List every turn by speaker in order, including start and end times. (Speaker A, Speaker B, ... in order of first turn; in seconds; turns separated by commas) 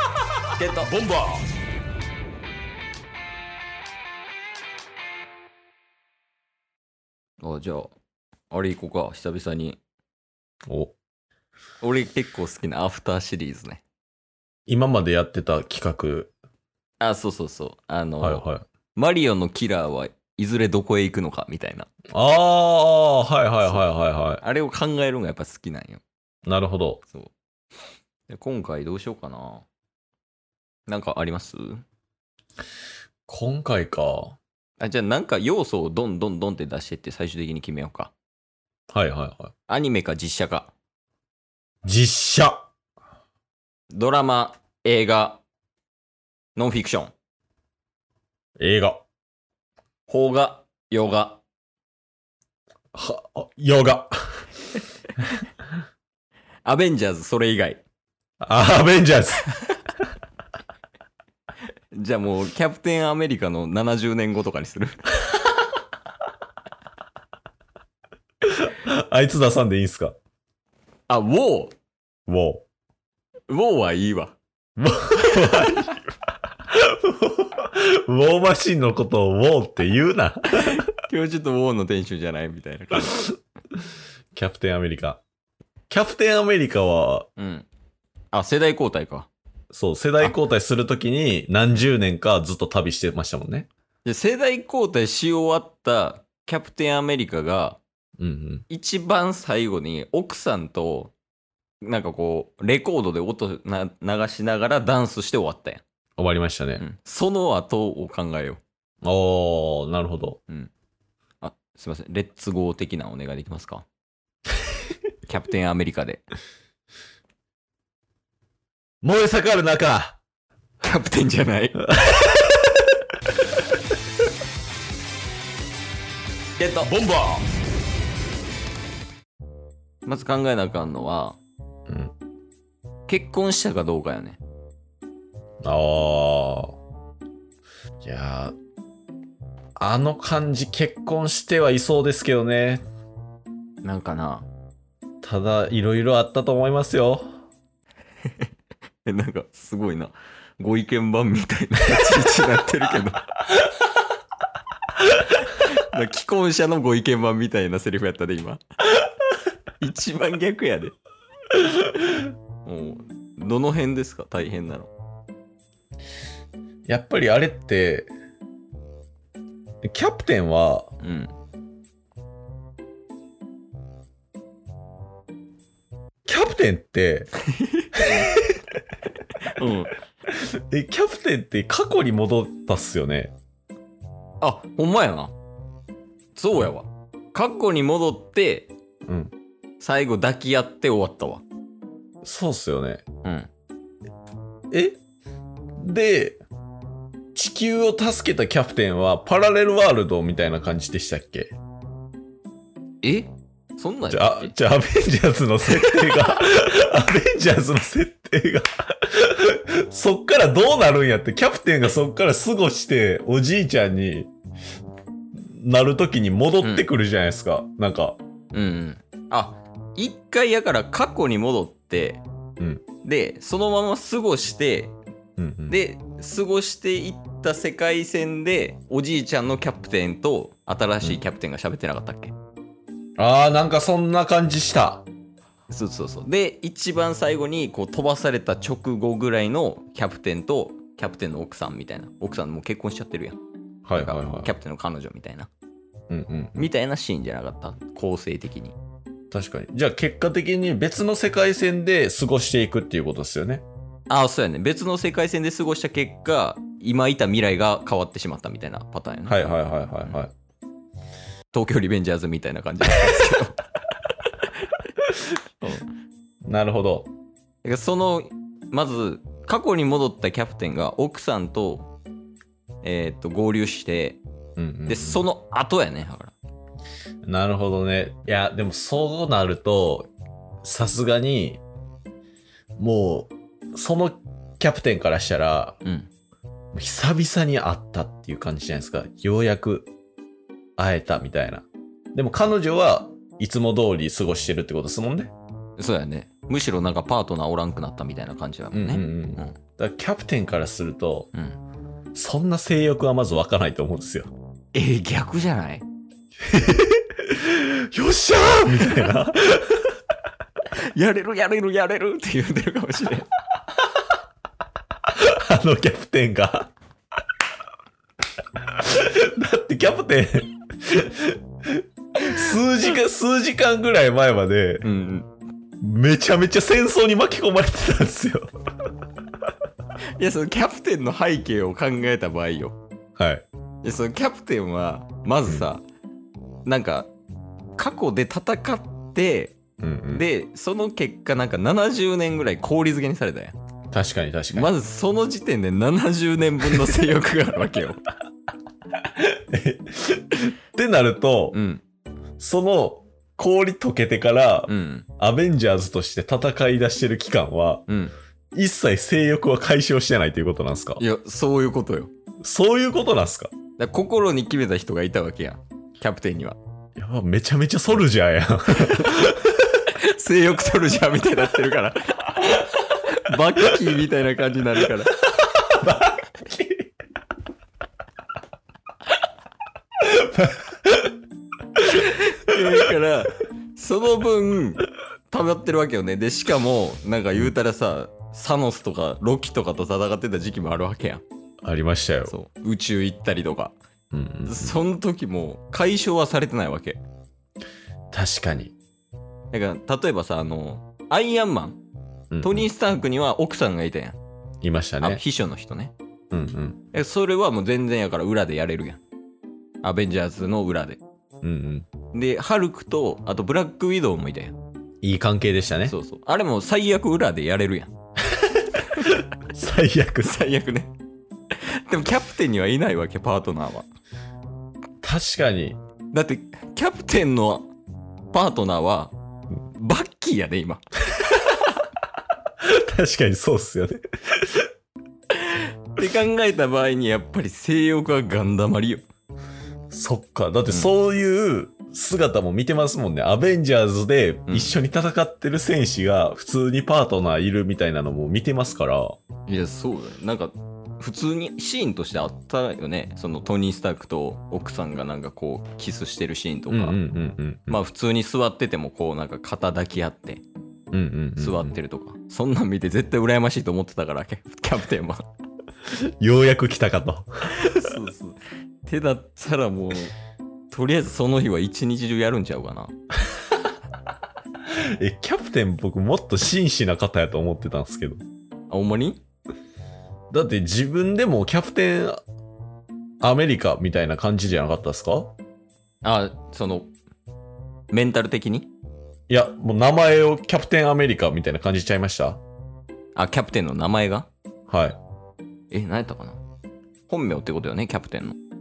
Speaker A: 0.6-0.9, Speaker B: 0.9-1.4, Speaker A: 7.4-7.9, Speaker A: 8.5-9.8, Speaker B: 10.7-10.9, Speaker A: 11.8-13.8, Speaker B: 14.7-16.3, Speaker A: 17.0-21.9, Speaker B: 18.2-18.6, Speaker B: 22.1-24.4, Speaker A: 24.4-26.0, Speaker B: 26.4-27.0, Speaker A: 27.0-27.3, Speaker A: 28.3-29.6, Speaker A: 30.9-31.8, Speaker B: 33.3-34.4, Speaker A: 34.8-38.1, Speaker B: 38.9-39.5, Speaker A: 39.7-40.7, Speaker B: 41.8-42.6, Speaker A: 43.9-45.4, Speaker A: 46.5-47.1, Speaker B: 48.6-49.0, Speaker A: 50.1-51.4, Speaker B: 52.9-54.5, Speaker A: 56.6-57.8, Speaker B: 58.4-59.5, Speaker A: 61.9-65.1, Speaker B: 68.4-70.1, Speaker A: 71.1-71.7, Speaker B: 72.3-72.7, Speaker A: 73.5-74.4, Speaker B: 74.8-76.0, Speaker A: 75.3-75.9, Speaker B: 76.7-80.8, Speaker A: 80.6-83.3, Speaker B: 84.3-85.2, Speaker B: 85.9-87.3, Speaker A: 87.4-87.7, Speaker A: 88.3-89.3, Speaker B: 89.7-93.7, Speaker A: 94.0-97.8, Speaker B: 98.2-98.6, Speaker A: 98.7-101.1, Speaker A: 101.8-105.8, Speaker B: 106.2-106.8, Speaker A: 106.8-108.6, Speaker B: 109.0-110.4, Speaker A: 111.4-113.8, Speaker A: 115.2-116.2, Speaker B: 119.0-120.2, Speaker A: 120.8-121.9, Speaker B: 121.9-122.6, Speaker A: 126.6-127.0, Speaker B: 126.9-127.4, Speaker A: 130.0-131.4, Speaker B: 131.9-132.1, Speaker A: 133.1-134.4, Speaker B: 135.6-136.8, Speaker B: 138.0-138.5, Speaker B: 139.8-142.8, Speaker A: 143.8-144.5, Speaker B: 145.2-147.4, Speaker A: 149.0-153.3, Speaker A: 155.1-158.6, Speaker A: 159.8-160.9, Speaker A: 162.6-164.9, Speaker B: 166.8-168.1, Speaker B: 169.8-170.9, Speaker A: 171.0-171.3, Speaker B: 176.2-177.3, Speaker A: 177.5-178.3, Speaker B: 177.9-178.6, Speaker A: 179.5-179.9, Speaker B: 180.3-183.3, Speaker A: 184.4-185.3, Speaker A: 186.3-188.7, Speaker B: 189.1-189.3, Speaker A: 189.8-191.4, Speaker B: 192.2-193.0, Speaker A: 193.2-193.5, Speaker B: 194.7-195.0, Speaker B: 195.8-196.4, Speaker B: 197.3-201.5, Speaker A: 203.0-204.5, Speaker B: 204.1-214.3, Speaker A: 205.7-206.4, Speaker B: 215.3-218.2, Speaker A: 216.6-216.9, Speaker A: 218.5-222.2, Speaker A: 223.0-224.9, Speaker B: 225.4-225.8, Speaker A: 225.7-232.3, Speaker B: 233.2-235.1, Speaker A: 235.7-243.4, Speaker B: 243.8-244.5, Speaker A: 243.9-245.5, Speaker B: 246.1-246.6, Speaker A: 246.6-248.7, Speaker B: 249.3-253.6, Speaker A: 254.1-259.5, Speaker B: 259.3-260.3, Speaker A: 261.5-265.9, Speaker B: 266.4-267.1, Speaker A: 267.6-271.9, Speaker A: 272.8-274.2, Speaker B: 274.6-275.2, Speaker A: 274.9-276.3, Speaker B: 277.2-280.1, Speaker B: 280.6-281.6, Speaker B: 282.8-285.8, Speaker B: 286.7-289.9, Speaker B: 290.8-295.3, Speaker A: 295.8-299.5, Speaker B: 298.7-301.3, Speaker B: 302.1-304.3, Speaker A: 304.7-305.8, Speaker B: 306.4-309.9, Speaker A: 310.7-313.3, Speaker B: 315.1-316.7, Speaker B: 318.7-324.9, Speaker A: 324.8-325.3, Speaker B: 325.8-328.5, Speaker A: 330.2-332.8, Speaker B: 333.2-333.4, Speaker A: 333.8-335.8, Speaker A: 336.6-337.1, Speaker A: 337.8-339.6, Speaker B: 339.8-340.2, Speaker A: 340.1-343.5, Speaker B: 343.9-344.7, Speaker A: 344.5-348.0, Speaker B: 349.0-351.6, Speaker A: 351.5-351.8, Speaker B: 352.4-357.8, Speaker A: 354.7-355.1, Speaker A: 357.9-358.1, Speaker B: 358.5-361.0, Speaker A: 361.0-362.1, Speaker B: 362.4-363.5, Speaker A: 363.8-366.6, Speaker B: 367.0-369.6, Speaker A: 368.8-369.2, Speaker A: 369.8-375.2, Speaker B: 375.3-376.9, Speaker B: 380.0-381.1, Speaker A: 381.8-391.2, Speaker B: 391.6-392.3, Speaker A: 392.3-393.7, Speaker B: 394.1-394.8, Speaker A: 394.4-397.0, Speaker B: 398.1-398.7, Speaker A: 399.5-401.8, Speaker B: 402.3-402.7, Speaker A: 402.4-404.2, Speaker B: 404.6-405.2, Speaker A: 405.0-405.9, Speaker B: 406.3-406.8, Speaker A: 406.9-409.0, Speaker A: 409.8-411.0, Speaker B: 411.4-411.9, Speaker A: 412.1-414.6, Speaker B: 415.0-415.9, Speaker A: 415.9-417.9, Speaker A: 418.6-419.2, Speaker B: 418.9-420.4, Speaker A: 420.2-420.9, Speaker A: 421.5-423.9, Speaker B: 425.0-425.8, Speaker A: 426.1-427.7, Speaker A: 428.3-429.1, Speaker A: 429.7-431.8, Speaker B: 432.6-434.7, Speaker A: 435.3-439.0, Speaker B: 439.9-449.2, Speaker A: 449.5-457.0, Speaker B: 456.7-457.8, Speaker A: 457.7-460.4, Speaker B: 460.9-461.7, Speaker A: 461.4-465.2, Speaker B: 465.9-467.9, Speaker A: 467.5-470.1, Speaker A: 470.7-472.9, Speaker B: 474.7-478.2, Speaker A: 478.7-479.2, Speaker B: 480.3-482.2, Speaker B: 483.2-485.3, Speaker A: 486.0-486.9, Speaker A: 487.9-488.7, Speaker B: 489.3-492.4, Speaker A: 493.1-494.3, Speaker B: 494.7-495.0, Speaker A: 495.7-496.4, Speaker A: 497.1-498.4